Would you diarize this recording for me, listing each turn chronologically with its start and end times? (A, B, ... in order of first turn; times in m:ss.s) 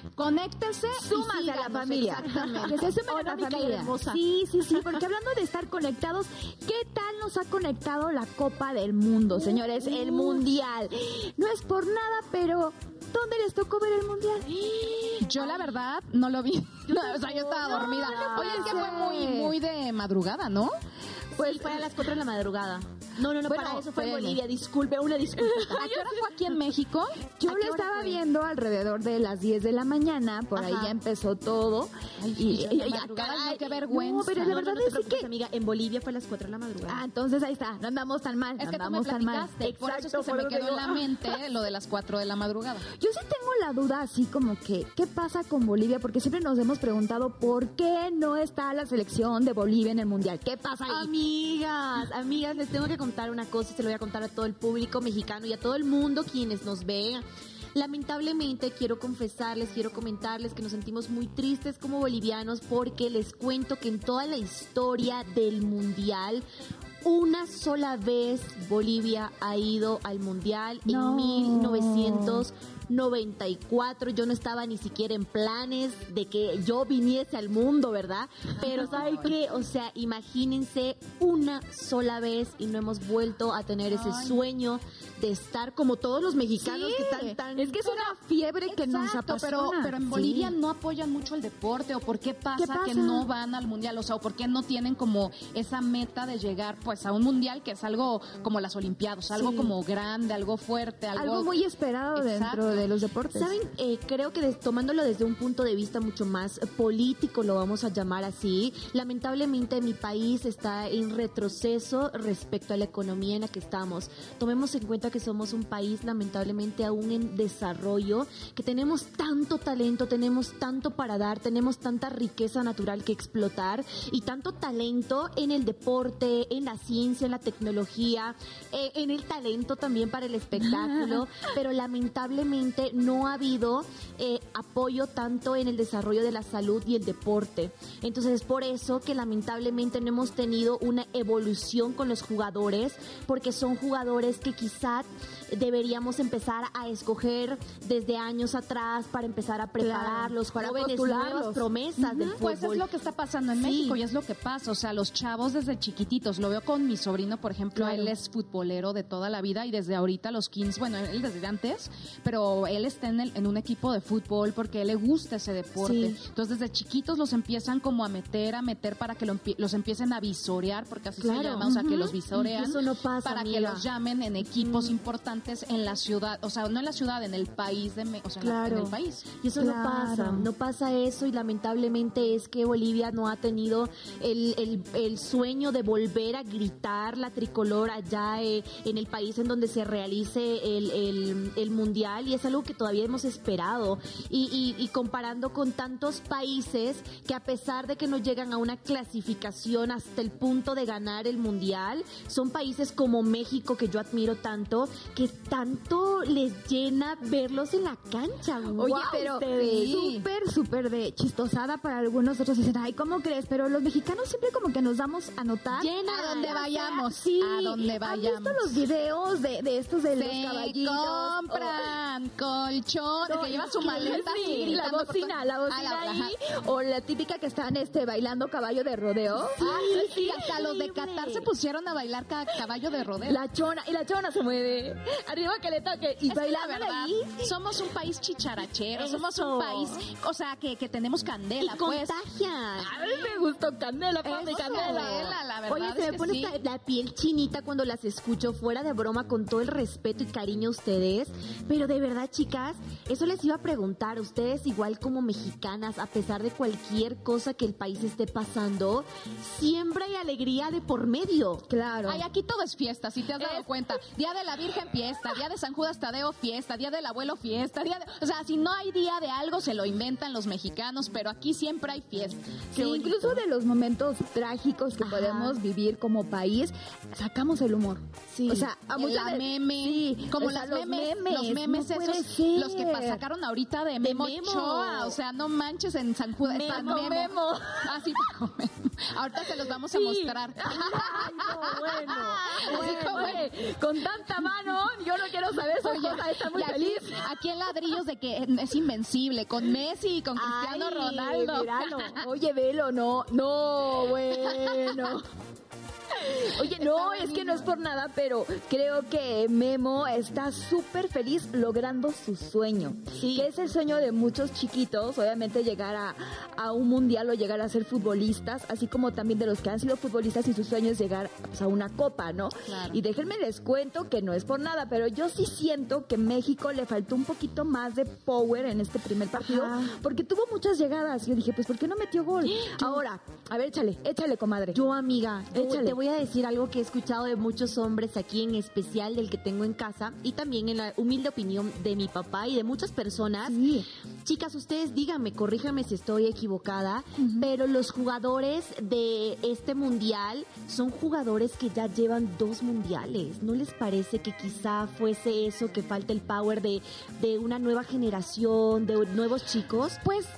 0:00.2-0:02.8 A
0:00.9-0:15.7 B
0:02.2-0:04.2 C
0:15.2-0:20.8 A
0:16.9-0:19.0 C
0:17.6-0:19.5 B
0:21.4-0:25.9 C
0:21.4-0:21.7 B
0:23.5-0:24.4 A
0:23.6-0:23.8 B
0:25.7-0:26.2 B
0:25.8-0:27.2 A
0:27.4-0:35.3 B
0:27.5-0:28.2 C
0:32.2-0:34.6 A
0:34.4-0:37.0 C
0:36.9-0:41.1 B
0:38.6-0:42.9 A
0:39.6-0:40.9 C
0:42.9-0:51.1 B
0:50.9-1:06.4 C
1:07.0-1:28.1 C
1:10.9-1:12.4 B
1:18.8-1:19.2 A
1:23.9-1:24.4 A
1:26.6-1:27.4 A
1:27.6-1:30.5 B
1:28.7-1:41.5 A
1:32.6-1:33.3 B
1:39.3-1:39.7 B
1:41.2-1:43.5 B
1:42.2-1:42.8 A
1:43.3-2:32.8 C
2:10.6-2:11.2 B
2:29.8-2:31.6 B
2:32.0-2:59.3 A
2:33.6-2:34.0 C
2:37.8-2:38.1 B
2:45.8-2:46.2 C
2:51.2-2:53.9 C
2:51.6-2:52.0 B
2:54.6-2:54.9 C
2:58.4-3:30.0 C
2:59.6-3:00.5 B
3:28.8-3:35.9 B
3:29.4-3:30.2 A
3:35.7-3:37.1 C
3:36.0-3:38.7 A
3:36.4-3:41.9 B
3:40.2-3:46.4 A
3:43.3-3:50.0 B
3:43.3-3:44.7 C
3:49.6-3:51.5 C
3:49.6-3:53.4 A
3:53.2-3:57.5 B
3:56.3-4:02.2 A
3:58.9-4:00.0 C
4:01.6-4:03.0 C
4:02.8-4:05.4 B
4:04.2-4:06.6 A
4:04.6-4:21.7 C
4:21.7-4:22.2 B
4:22.1-4:33.3 A
4:23.4-4:23.7 B
4:32.7-4:43.2 B
4:35.0-4:35.6 C
4:38.3-4:38.7 C
4:38.9-4:51.9 A
4:44.0-4:45.2 C
4:46.4-4:48.2 B
4:46.7-4:47.1 C
4:49.9-4:57.3 B
4:50.7-4:53.4 C
4:52.5-4:53.5 A
4:55.8-5:02.2 A
5:00.3-5:02.2 C
5:02.1-5:05.3 B
5:06.1-5:34.8 B
5:06.8-5:07.7 A
5:13.1-5:13.5 C
5:29.3-5:30.0 C
5:32.4-5:33.1 C
5:34.7-5:43.7 C
5:35.5-5:36.0 B
5:43.5-5:43.9 B
5:44.2-6:00.0 C
5:47.2-5:47.5 B